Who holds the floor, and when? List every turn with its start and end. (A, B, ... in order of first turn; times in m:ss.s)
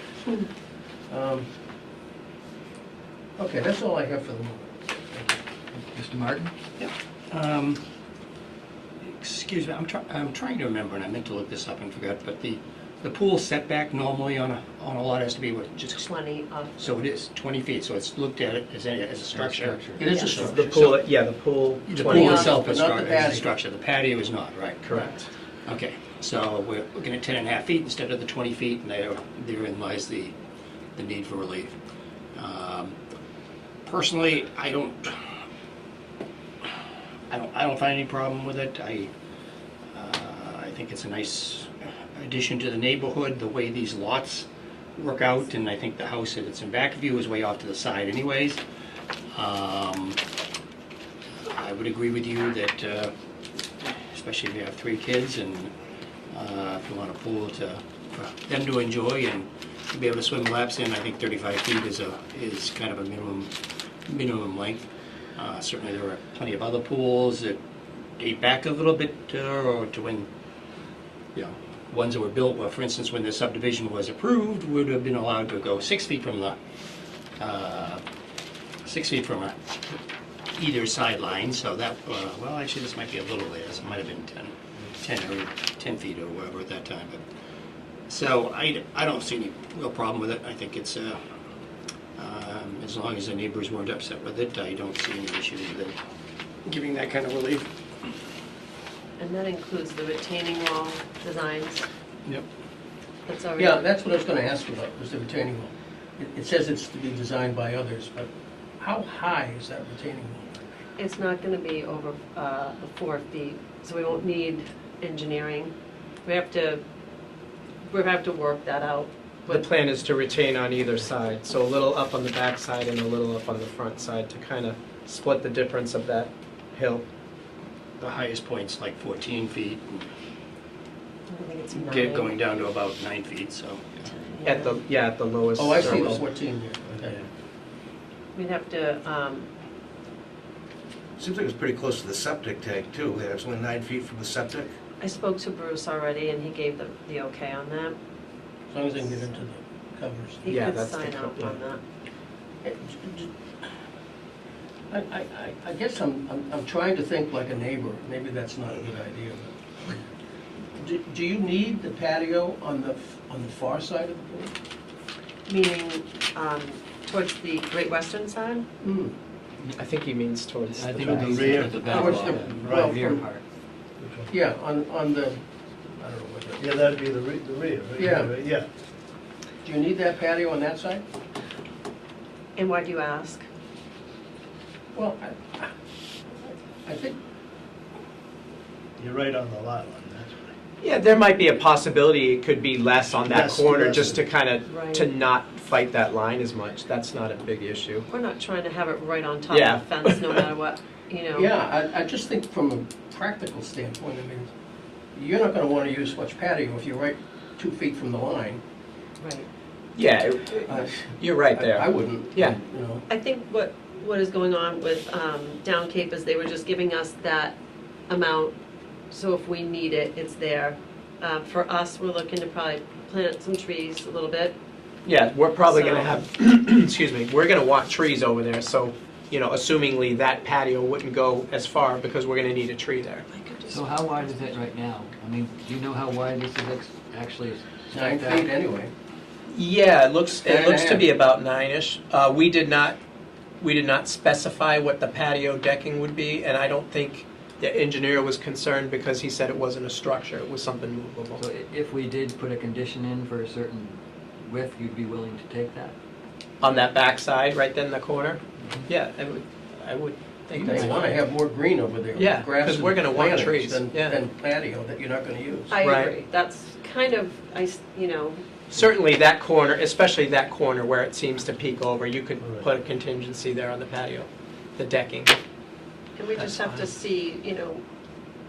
0:01.1-0:01.5 A
0:03.4-0:05.4 A
0:05.7-0:06.5 B
0:06.8-0:07.8 C
0:09.0-0:16.1 C
0:15.9-0:17.0 D
0:16.8-0:20.8 C
0:19.3-0:20.2 B
0:20.0-0:21.0 A
0:20.3-0:22.5 E
0:21.9-0:25.0 C
0:22.1-0:22.5 D
0:22.1-0:23.5 A
0:24.8-0:25.3 E
0:25.6-0:30.4 C
0:31.0-0:31.7 C
0:32.4-0:33.0 C
0:33.8-0:35.3 C
0:37.3-0:39.1 C
0:39.9-0:48.6 C
0:49.3-0:50.2 C
0:51.4-0:53.1 C
0:53.8-0:55.7 C
0:56.3-1:03.5 C
1:04.1-1:07.6 C
1:08.2-1:10.3 C
1:11.4-1:16.6 C
1:17.4-1:18.0 C
1:18.8-1:19.8 C
1:20.5-1:27.2 C
1:28.1-1:31.2 C
1:32.2-1:36.0 C
1:36.6-1:38.1 C
1:39.2-1:41.9 D
1:43.3-1:43.8 D
1:43.6-1:50.6 A
1:51.0-1:55.7 D
1:56.2-1:56.8 D
1:57.9-1:59.7 D
1:59.5-2:07.0 E
2:08.0-2:10.1 C
2:11.3-2:12.4 D
2:11.7-2:14.1 C
2:14.1-2:14.8 D
2:14.4-2:16.2 E
2:15.6-2:17.2 A
2:18.4-2:19.5 D
2:21.2-2:24.7 F
2:25.0-2:28.0 D
2:28.7-2:30.4 A
2:30.4-2:31.8 D
2:30.5-2:31.6 E
2:32.6-2:33.3 A
2:34.9-2:40.0 A
2:40.8-2:44.5 A
2:45.5-2:48.7 D
2:48.8-2:49.2 A
2:49.8-2:51.7 E
2:50.7-2:53.4 B
2:50.9-2:52.9 G
2:51.8-2:53.2 A
2:54.0-2:54.3 G
2:54.3-2:55.4 A
2:56.0-2:56.6 A
2:56.6-2:58.7 G
2:58.0-2:58.3 A
2:59.6-3:01.0 A
3:02.6-3:03.5 D
3:05.0-3:05.7 A
3:06.3-3:07.2 A
3:09.0-3:10.5 G
3:10.8-3:18.1 E
3:13.2-3:14.2 G
3:14.7-3:15.1 D
3:18.1-3:21.5 D
3:19.5-3:20.4 E
3:21.3-3:24.5 A
3:25.2-3:28.6 A
3:29.2-3:29.5 D
3:30.0-3:32.6 E
3:30.7-3:33.1 A
3:33.1-3:37.6 D
3:38.1-3:38.5 D
3:39.1-3:44.6 D
3:45.0-3:53.3 E
3:45.7-3:46.2 D
3:53.3-3:54.6 D
3:53.7-3:58.5 B
3:57.9-3:58.9 A
3:59.5-4:03.0 E
4:00.4-4:01.1 A
4:03.6-4:11.4 E
4:11.4-4:16.0 B
4:16.6-4:21.1 E
4:20.5-4:25.7 A
4:22.2-4:24.2 E
4:25.7-4:28.4 D
4:25.8-4:26.1 E
4:28.7-4:35.3 E
4:36.2-4:37.8 D
4:36.4-4:36.7 E